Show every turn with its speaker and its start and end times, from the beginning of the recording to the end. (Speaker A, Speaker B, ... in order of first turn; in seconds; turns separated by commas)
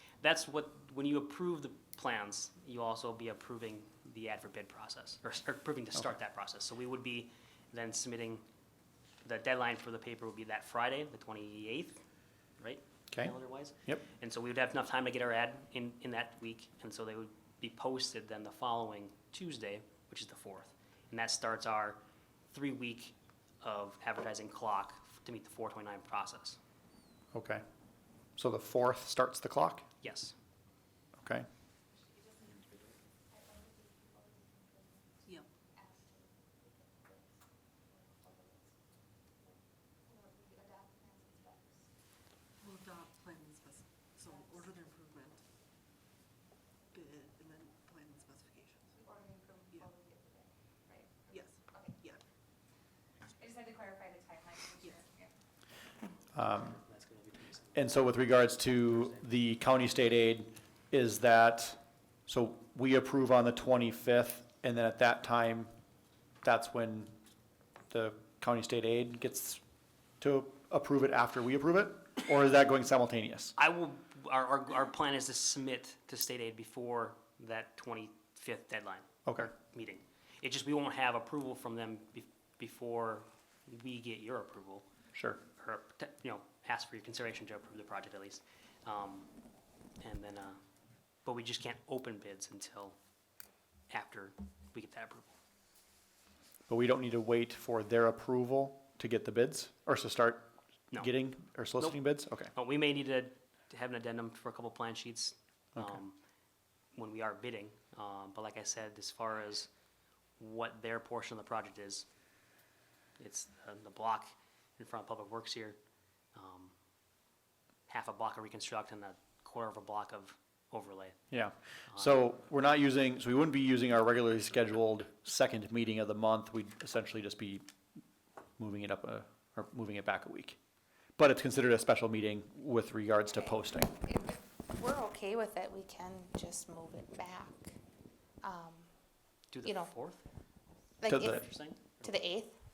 Speaker A: 0.2-8.4, Speaker A: 9.2-12.0, Speaker A: 12.6-26.6, Speaker B: 13.1-14.0, Speaker B: 27.3-27.6, Speaker B: 28.4-29.9, Speaker A: 30.0-30.3, Speaker B: 31.2-31.5, Speaker C: 42.7-43.8, Speaker C: 44.3-45.1, Speaker C: 47.0-48.5, Speaker D: 49.0-50.1, Speaker D: 53.4-55.3, Speaker B: 56.3-56.8, Speaker A: 56.5-59.2, Speaker B: 57.8-65.7, Speaker B: 66.4-67.1, Speaker B: 67.9-69.6, Speaker B: 70.2-73.5, Speaker A: 73.6-84.8, Speaker B: 85.1-85.4, Speaker A: 85.6-89.3, Speaker A: 90.0-90.6, Speaker A: 91.2-93.0, Speaker A: 93.9-95.3, Speaker B: 96.7-102.5, Speaker A: 101.8-106.2, Speaker A: 107.0-109.7, Speaker A: 110.4-112.1, Speaker A: 113.2-115.8, Speaker A: 116.3-116.7, Speaker A: 117.9-121.2, Speaker B: 121.3-127.7, Speaker A: 121.9-122.2, Speaker B: 128.6-130.6, Speaker B: 131.2-133.9, Speaker D: 134.0-137.7, Speaker D: 138.4-138.9, Speaker A: 139.5-140.2, Speaker D: 141.0-141.4, Speaker B: 141.1-141.4, Speaker A: 141.1-142.1, Speaker D: 142.0-142.6